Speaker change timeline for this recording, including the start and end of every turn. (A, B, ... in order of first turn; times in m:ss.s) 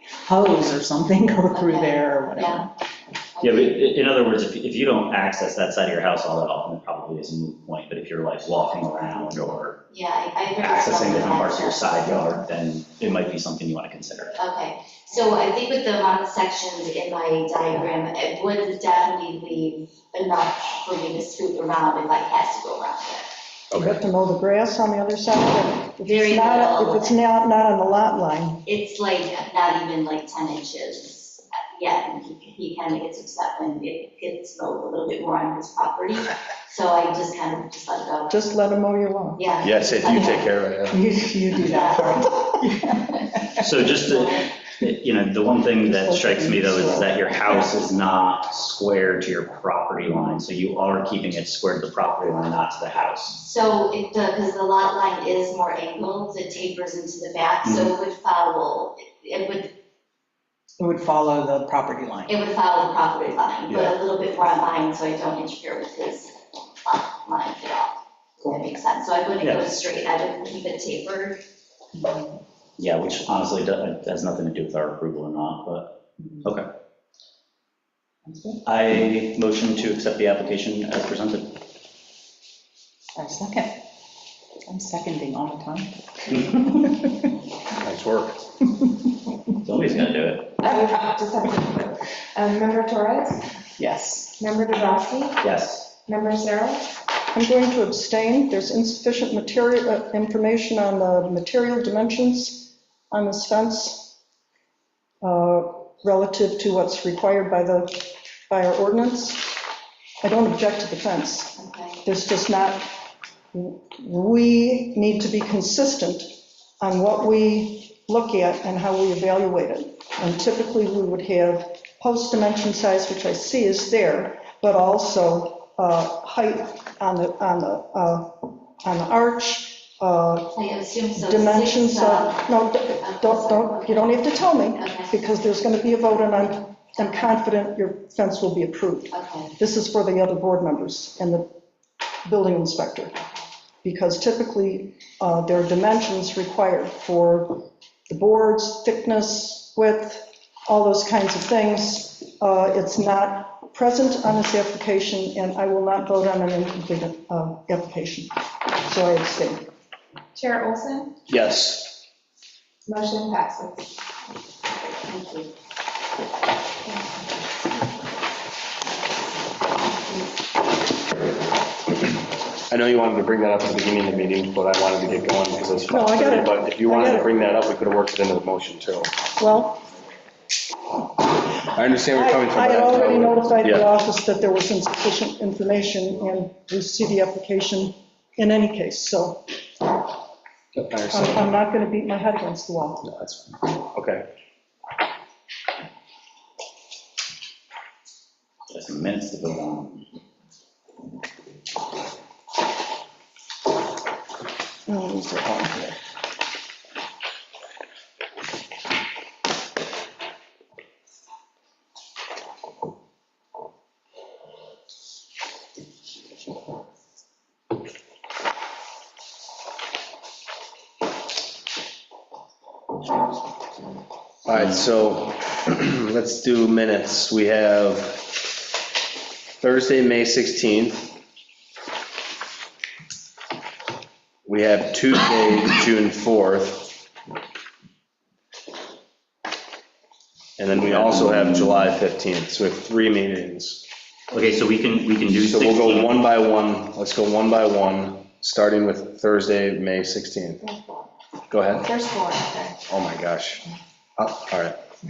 0:00.2-0:02.7 A
0:01.5-0:02.7 B
0:03.4-0:03.8 B
0:03.4-0:09.8 C
0:09.9-0:12.3 B
0:10.6-0:14.4 C
0:14.4-0:23.3 B
0:23.7-0:24.0 D
0:23.8-0:28.6 E
0:26.0-0:27.2 B
0:28.6-0:38.4 B
0:38.3-0:39.4 E
0:39.4-0:40.4 B
0:39.6-0:41.0 D
0:40.9-0:43.5 A
0:41.6-0:42.3 B
0:43.6-0:53.4 C
0:44.0-0:44.5 B
0:45.9-0:47.6 E
0:53.4-0:59.7 B
0:57.6-0:57.9 C
1:00.8-1:02.4 A
1:02.3-1:06.3 B
1:06.8-1:11.4 B
1:09.4-1:09.7 C
1:12.0-1:12.4 A
1:12.8-1:16.7 C
1:18.2-1:18.6 A
1:18.7-1:21.6 C
1:23.2-1:23.8 A
1:24.7-1:27.0 A
1:27.8-1:28.4 D
1:29.6-1:30.7 C
1:30.6-1:33.4 F
1:33.8-1:34.4 A
1:34.4-1:35.4 F
1:35.4-1:35.9 C
1:36.0-1:36.9 F
1:37.3-1:44.2 E
1:45.2-1:49.6 E
1:50.2-1:52.9 E
1:51.6-1:52.0 B
1:53.5-2:10.5 E
2:10.5-2:15.2 B
2:11.1-2:21.5 E
2:19.1-2:19.6 B
2:22.2-2:23.2 E
2:23.8-2:39.7 E
2:40.4-2:41.2 F
2:41.3-2:42.0 D
2:42.9-2:43.9 F
2:45.0-2:45.5 B
2:52.7-2:59.1 D
2:55.9-2:57.3 E
2:59.4-2:59.8 E
3:01.7-3:03.9 D
3:02.2-3:09.5 E
3:10.8-3:11.5 D
3:11.1-3:13.1 E
3:13.1-3:14.2 D
3:18.7-3:20.0 C
3:24.9-3:26.0 E
3:44.5-3:48.3 D
3:49.6-3:51.2 D
3:54.4-3:56.9 D
4:00.6-4:03.8 D
4:00.8-4:01.9 C
4:04.3-4:06.2 C
4:05.4-4:10.6 D
4:11.5-4:11.9 D
4:11.8-4:12.8 F
4:12.9-4:13.6 D
4:14.2-4:14.8 D